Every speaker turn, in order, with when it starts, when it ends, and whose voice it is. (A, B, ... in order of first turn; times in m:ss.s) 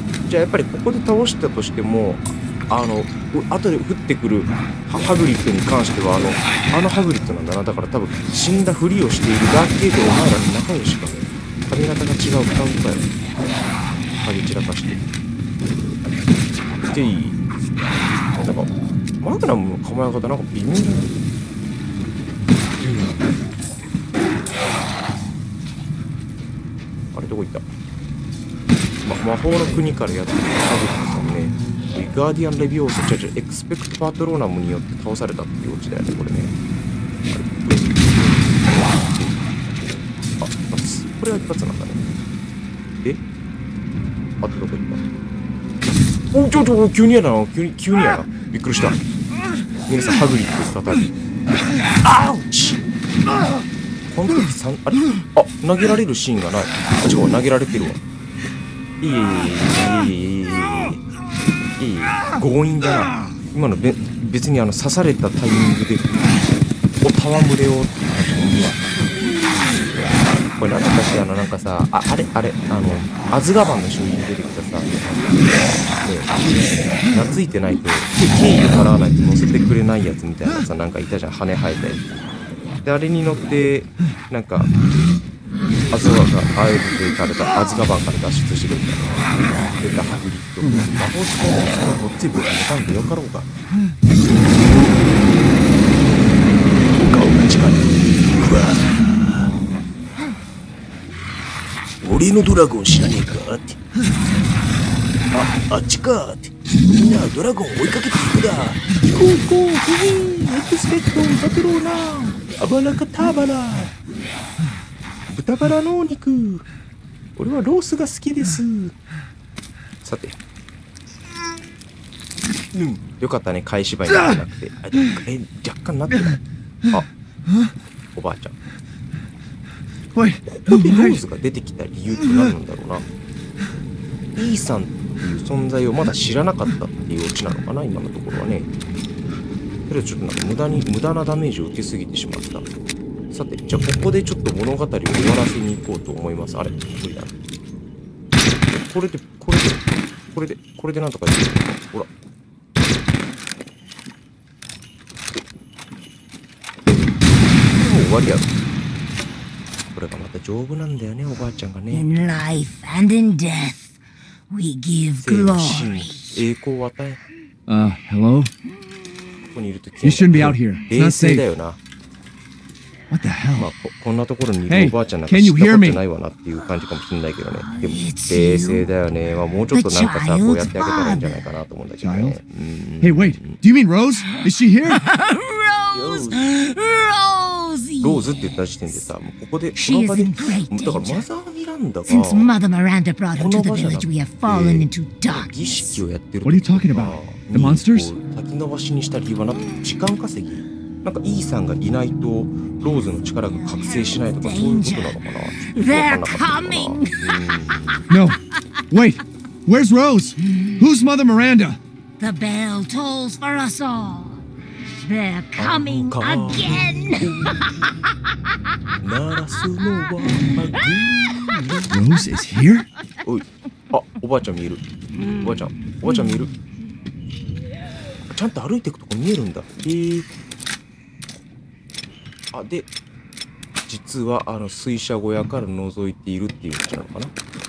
0:00.3-0:13.1 A
0:14.2-0:15.0 A
0:16.8-0:17.4 A
0:18.4-0:21.1 A
0:22.8-0:23.4 A
0:27.1-0:27.7 A
0:29.0-0:36.5 A
0:37.3-0:42.0 A
0:44.4-0:45.0 A
0:46.3-0:49.0 A
0:49.9-0:51.1 A
0:52.0-0:52.8 A
0:54.1-0:58.0 A
0:59.0-1:01.0 A
1:01.8-1:06.5 A
1:07.0-1:08.8 A
1:09.6-1:16.4 A
1:17.1-1:22.0 A
1:22.8-1:24.7 A
1:25.9-1:33.5 A
1:34.5-1:35.4 A
1:36.9-1:39.5 A
1:42.0-1:43.8 A
1:45.3-1:53.9 A
1:55.3-1:56.6 A
1:57.4-1:59.0 A
2:00.0-2:00.4 A
2:02.7-2:07.1 A
2:08.1-2:08.6 A
2:10.1-2:11.2 B
2:10.4-2:13.1 A
2:14.4-2:18.7 A
2:19.9-2:22.7 A
2:23.3-2:27.3 A
2:28.7-2:32.1 A
2:37.7-2:38.5 A
2:39.9-2:42.1 A
2:41.9-2:43.9 C
2:44.5-2:46.3 C
2:45.2-2:47.2 A
2:47.7-2:48.5 B
2:49.5-2:51.8 A
2:50.0-2:51.5 B
2:53.1-2:53.7 B
2:53.6-3:03.6 A
2:54.7-2:56.0 B
2:57.6-2:58.9 C
2:59.7-3:01.5 C
3:02.0-3:02.4 B
3:03.0-3:05.0 B
3:04.9-3:09.1 C
3:05.9-3:06.5 A
3:08.0-3:12.5 A
3:09.8-3:11.3 C
3:12.1-3:16.0 C
3:13.3-3:28.1 A
3:16.4-3:18.1 B
3:23.4-3:27.3 C
3:28.1-3:28.4 B
3:28.9-3:31.8 B
3:32.2-3:34.4 C
3:35.0-3:37.5 C
3:35.6-3:37.9 A
3:39.0-3:42.0 A
3:41.9-3:42.9 B
3:43.2-3:46.5 A
3:48.3-3:50.3 A
3:52.5-3:52.9 A
3:53.9-3:57.3 A